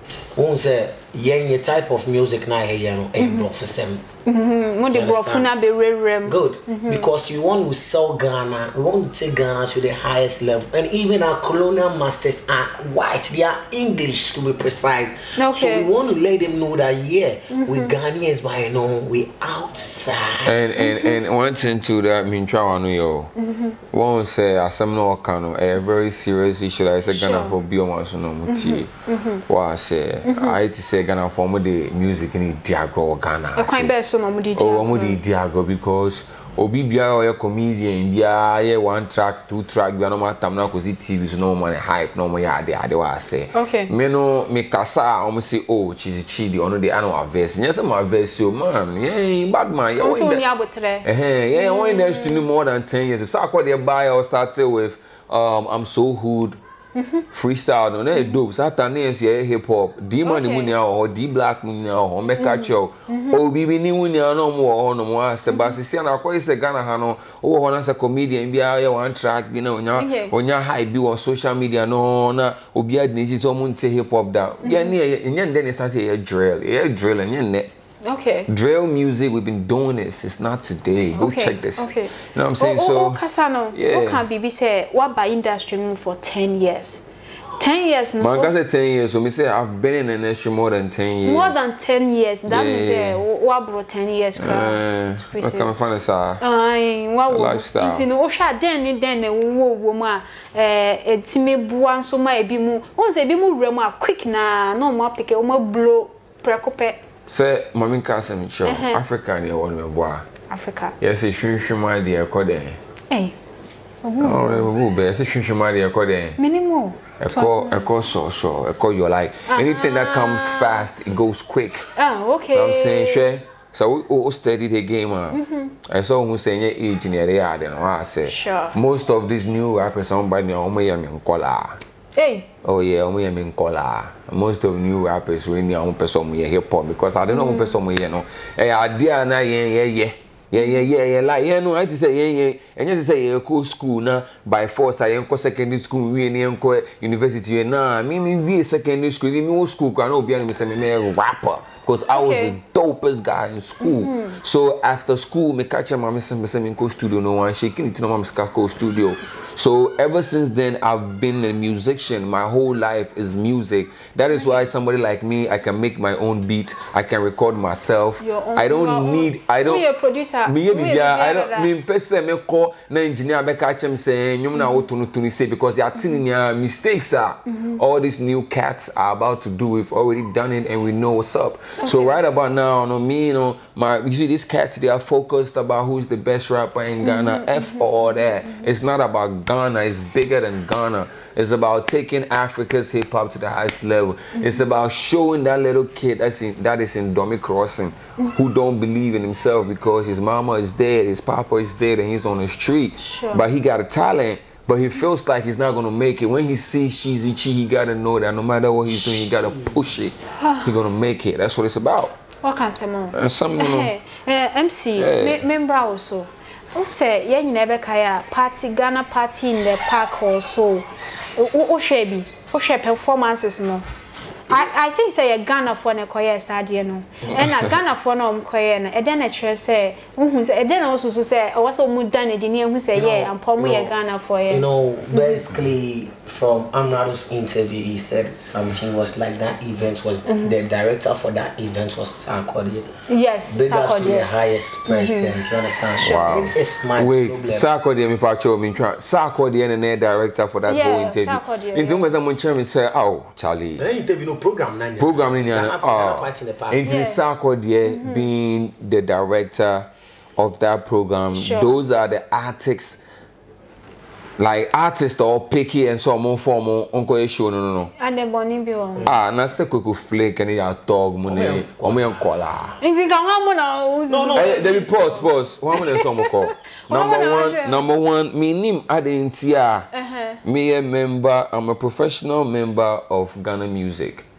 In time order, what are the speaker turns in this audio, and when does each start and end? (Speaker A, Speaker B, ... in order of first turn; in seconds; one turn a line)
Speaker A: 0.3-4.0
Speaker B: 3.2-3.5
Speaker B: 4.2-7.1
Speaker A: 4.9-5.5
Speaker A: 6.2-20.6
Speaker B: 15.4-15.9
Speaker B: 17.5-17.9
Speaker C: 20.4-23.3
Speaker B: 20.8-21.2
Speaker B: 23.4-23.8
Speaker C: 23.9-28.9
Speaker B: 27.1-27.6
Speaker B: 28.5-29.4
Speaker C: 29.4-33.9
Speaker B: 30.2-30.6
Speaker B: 33.5-35.2
Speaker C: 34.5-50.4
Speaker B: 43.5-43.9
Speaker B: 50.0-52.5
Speaker C: 51.0-56.6
Speaker B: 57.0-57.2
Speaker C: 57.3-77.7
Speaker B: 58.1-58.4
Speaker B: 60.2-60.7
Speaker B: 62.4-63.4
Speaker B: 65.5-65.8
Speaker B: 70.0-70.3
Speaker B: 74.6-75.0
Speaker B: 78.0-78.5
Speaker C: 78.5-83.2
Speaker B: 81.2-87.0
Speaker C: 83.7-84.2
Speaker B: 87.6-88.5
Speaker C: 88.2-91.7
Speaker B: 91.2-95.7
Speaker C: 92.5-93.2
Speaker C: 94.4-96.4
Speaker B: 96.4-107.0
Speaker C: 97.3-98.1
Speaker C: 107.3-110.2
Speaker B: 108.7-109.0
Speaker B: 110.5-110.9
Speaker C: 111.0-112.8
Speaker B: 113.1-113.3
Speaker B: 114.0-114.7
Speaker C: 114.2-116.4
Speaker B: 116.4-117.9
Speaker C: 117.2-121.9
Speaker B: 119.5-120.8
Speaker B: 122.0-123.2
Speaker C: 122.5-131.8
Speaker B: 125.3-125.7
Speaker B: 128.3-128.8
Speaker B: 132.2-132.5
Speaker C: 132.6-169.9
Speaker B: 137.3-137.8
Speaker B: 140.6-140.8
Speaker B: 152.1-152.5
Speaker B: 153.8-154.4
Speaker B: 168.2-171.7
Speaker C: 170.4-212.1
Speaker B: 174.6-174.8
Speaker B: 175.9-176.2
Speaker B: 177.5-177.8
Speaker B: 181.8-182.2
Speaker B: 187.0-188.6
Speaker B: 194.3-194.6
Speaker B: 203.0-203.4
Speaker A: 208.9-209.8
Speaker B: 210.3-210.7
Speaker B: 212.4-223.8
Speaker C: 213.1-213.9
Speaker C: 215.0-215.4
Speaker B: 224.5-235.4
Speaker A: 232.9-233.9
Speaker A: 234.5-242.9
Speaker B: 240.2-240.6
Speaker B: 243.1-244.3
Speaker A: 243.5-247.7
Speaker B: 244.9-245.4
Speaker B: 246.0-246.3
Speaker C: 246.0-253.9
Speaker B: 250.7-252.1
Speaker A: 253.8-256.9
Speaker C: 255.0-263.0
Speaker B: 256.8-257.2
Speaker B: 257.9-258.3
Speaker B: 261.3-261.8
Speaker C: 264.4-267.9
Speaker B: 268.0-269.1
Speaker C: 269.0-272.7
Speaker A: 271.2-272.8
Speaker B: 272.8-274.6
Speaker A: 274.1-275.3
Speaker C: 274.3-279.9
Speaker B: 275.7-277.8
Speaker B: 279.9-280.4
Speaker C: 280.4-284.2